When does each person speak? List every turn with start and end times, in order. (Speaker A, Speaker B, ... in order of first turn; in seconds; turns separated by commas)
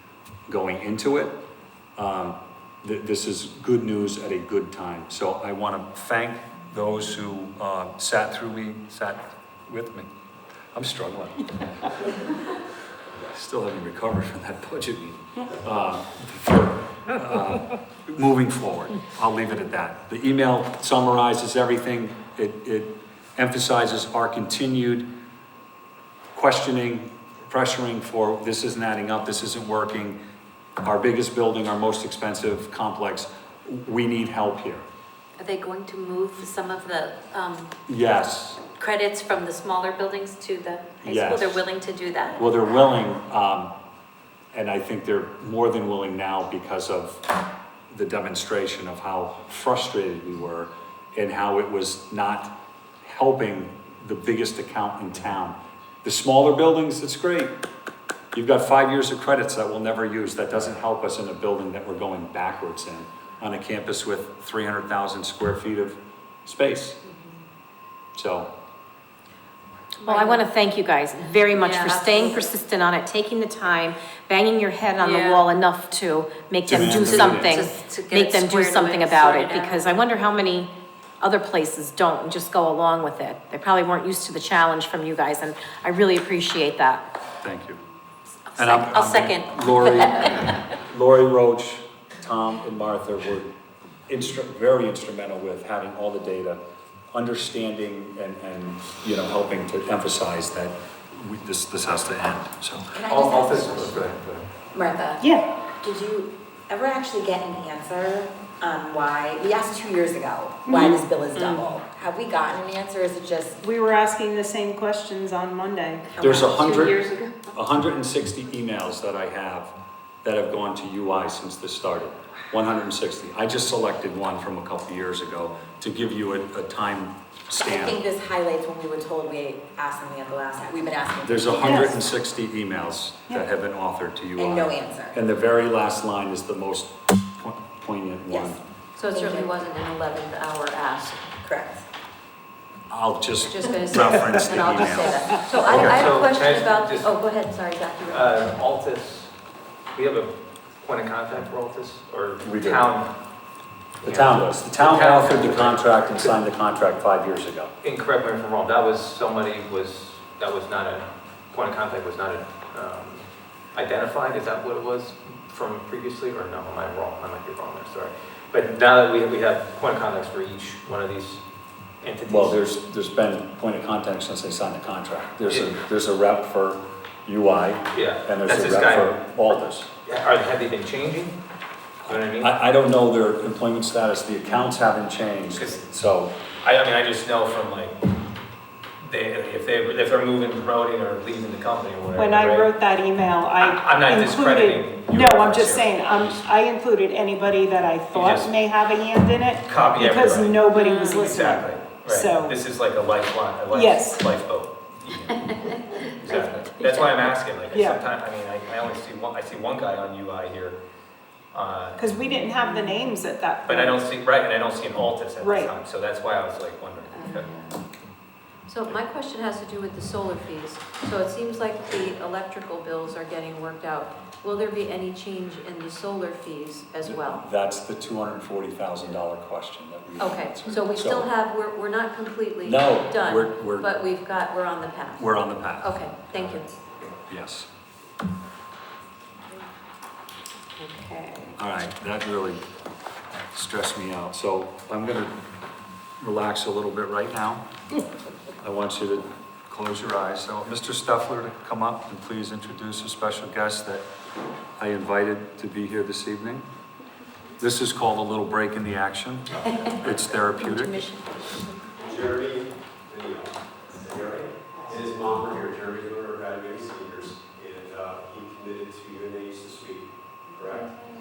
Speaker A: 0.5-1.4, Speaker A: 2.0-10.1, Speaker A: 10.7-11.9, Speaker A: 13.2-25.1, Speaker A: 26.4-30.2, Speaker A: 30.8-34.8, Speaker B: 35.4-37.7, Speaker A: 37.9-38.6, Speaker B: 38.6-42.4, Speaker A: 41.0-41.6, Speaker A: 42.4-43.7, Speaker A: 44.5-47.2, Speaker A: 47.9-57.5, Speaker A: 58.3-67.0, Speaker A: 68.2-68.5, Speaker B: 70.0-70.5, Speaker C: 70.0-87.1, Speaker B: 71.5-72.5, Speaker B: 75.0-75.5, Speaker A: 76.7-77.7, Speaker B: 76.7-80.0, Speaker A: 87.4-87.8, Speaker B: 88.6-89.3, Speaker A: 88.6-93.5, Speaker C: 88.6-90.2, Speaker B: 90.2-90.5, Speaker A: 94.1-96.6, Speaker A: 97.1-103.0, Speaker D: 102.9-104.0, Speaker E: 103.1-104.5, Speaker D: 104.8-105.2, Speaker D: 105.8-113.6, Speaker F: 110.7-111.0, Speaker F: 113.6-116.1, Speaker D: 116.2-116.9, Speaker A: 116.2-128.0, Speaker D: 127.6-132.0, Speaker A: 131.2-138.6, Speaker D: 134.4-135.2, Speaker D: 138.3-138.6, Speaker B: 139.0-141.2, Speaker D: 139.1-139.6, Speaker D: 141.4-141.8, Speaker A: 142.9-146.0, Speaker B: 143.5-148.3, Speaker E: 145.5-147.2, Speaker E: 148.1-149.3, Speaker E: 149.9-153.1, Speaker A: 152.4-152.9, Speaker E: 154.0-156.3, Speaker A: 154.0-157.7, Speaker E: 157.8-171.4, Speaker E: 172.0-172.6, Speaker A: 172.3-179.9, Speaker E: 177.9-179.2, Speaker E: 180.0-181.4, Speaker E: 182.1-182.5, Speaker A: 182.1-186.3, Speaker E: 185.5-185.8, Speaker E: 186.6-188.0, Speaker E: 189.0-192.7, Speaker F: 192.2-202.6, Speaker E: 193.6-196.4, Speaker E: 198.1-198.8, Speaker E: 199.7-210.8, Speaker C: 200.8-201.2, Speaker F: 203.7-204.3, Speaker B: 205.9-207.2, Speaker F: 207.7-208.0, Speaker E: 211.5-212.1, Speaker F: 212.0-213.9, Speaker B: 212.2-213.1, Speaker E: 213.7-217.5, Speaker F: 215.4-215.7, Speaker B: 217.2-217.8, Speaker B: 218.7-227.4, Speaker A: 227.0-231.3, Speaker B: 230.2-236.7, Speaker A: 232.7-233.9, Speaker A: 235.2-235.9, Speaker A: 237.3-237.7, Speaker C: 240.8-241.5, Speaker A: 241.6-242.6, Speaker A: 243.5-245.4, Speaker A: 246.2-247.6, Speaker A: 248.6-254.1, Speaker A: 254.8-256.6, Speaker A: 257.6-261.0, Speaker B: 259.7-261.9, Speaker G: 261.9-271.0